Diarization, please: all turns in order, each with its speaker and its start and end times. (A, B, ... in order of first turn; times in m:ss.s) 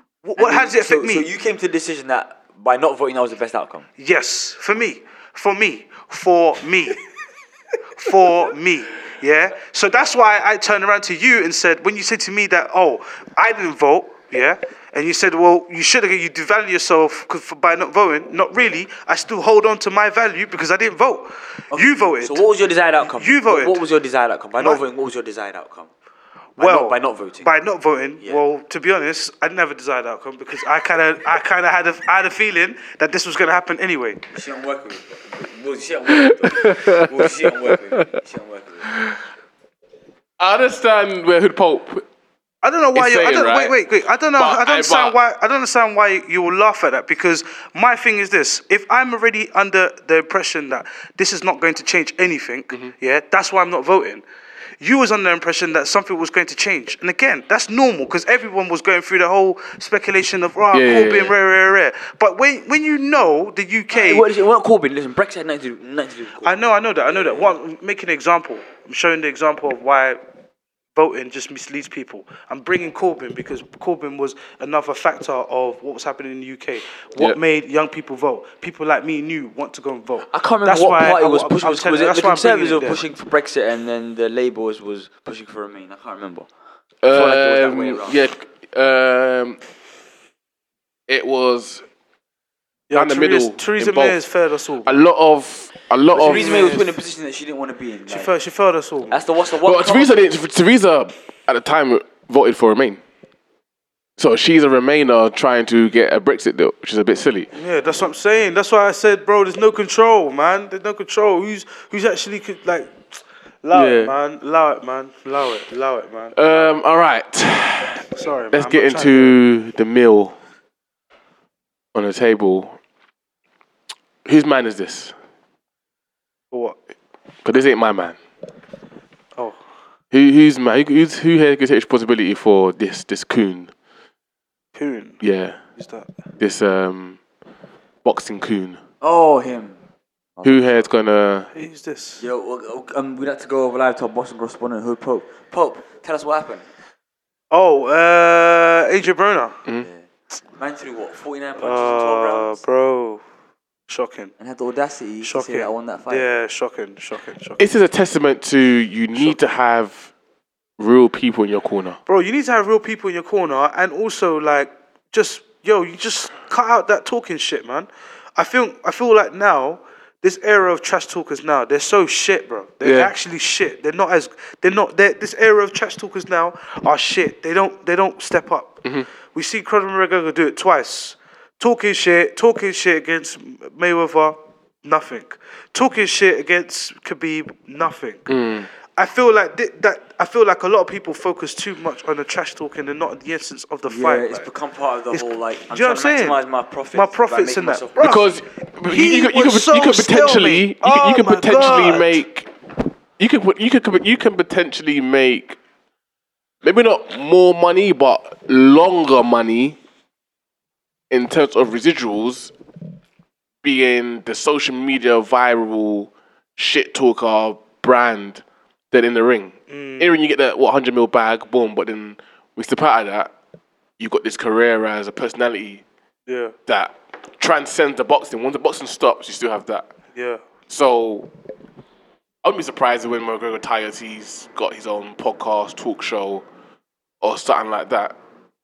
0:00.2-0:01.3 A
0:00.4-0:03.9 B
0:04.0-0:07.0 A
0:08.0-0:22.4 A
0:21.7-0:25.9 B
0:23.1-0:23.8 A
0:26.6-0:34.2 A
0:26.6-0:27.5 B
0:34.3-0:38.9 B
0:36.2-0:38.1 C
0:38.9-0:39.2 C
0:40.4-0:42.0 C
0:42.6-0:54.2 A
0:43.0-0:43.8 C
0:44.3-0:45.2 C
0:54.8-1:04.3 A
1:00.7-1:01.3 C
1:03.9-1:07.6 B
1:06.4-1:10.2 A
1:11.0-1:23.0 A
1:20.3-1:26.5 B
1:27.0-1:29.6 C
1:27.1-1:28.2 B
1:31.1-1:31.8 C
1:32.9-1:35.0 A
1:32.9-1:34.2 C
1:34.9-1:36.7 C
1:36.1-1:36.9 A
1:36.2-1:38.3 B
1:38.1-1:39.2 A
1:39.1-1:40.2 B
1:39.6-1:43.0 C
1:44.2-1:47.5 C
1:47.5-1:56.7 A
1:53.7-1:54.1 C
1:56.4-2:00.4 C
1:58.1-1:59.4 A
2:01.9-2:02.8 C
2:04.2-2:05.1 C
2:06.5-2:06.8 A
2:07.4-2:08.2 C
2:10.1-2:13.7 C
2:14.8-2:15.2 A
2:15.2-2:15.6 C
2:15.8-2:16.1 A
2:16.4-2:17.2 C
2:18.0-2:18.8 C
2:19.0-2:19.8 B
2:20.4-2:20.9 B
2:20.4-2:21.5 C
2:21.5-2:22.2 A
2:22.2-2:26.7 B
2:27.5-2:29.6 A
2:29.8-2:32.6 B
2:31.6-2:33.2 A
2:33.9-2:34.3 A
2:34.4-2:36.3 B
2:35.2-2:37.6 A
2:37.6-2:40.1 C
2:40.8-2:42.0 C
2:42.1-2:58.8 A
2:52.8-2:53.1 C
2:59.3-3:08.3 A
3:08.3-3:08.7 C
3:09.0-3:14.5 A
3:13.9-3:18.2 B
3:15.1-3:16.4 A
3:16.9-3:18.3 A
3:18.0-3:22.5 C
3:18.9-3:22.2 A
3:23.2-3:25.6 C
3:26.6-3:29.8 C
3:31.1-3:32.5 C
3:33.6-3:43.3 C
3:39.7-3:40.2 A
3:44.0-3:45.8 C
3:46.3-3:46.5 A
3:46.7-3:49.9 C
3:50.2-3:50.4 A
3:50.7-3:51.3 C
3:52.4-3:56.4 C
3:57.2-3:58.2 C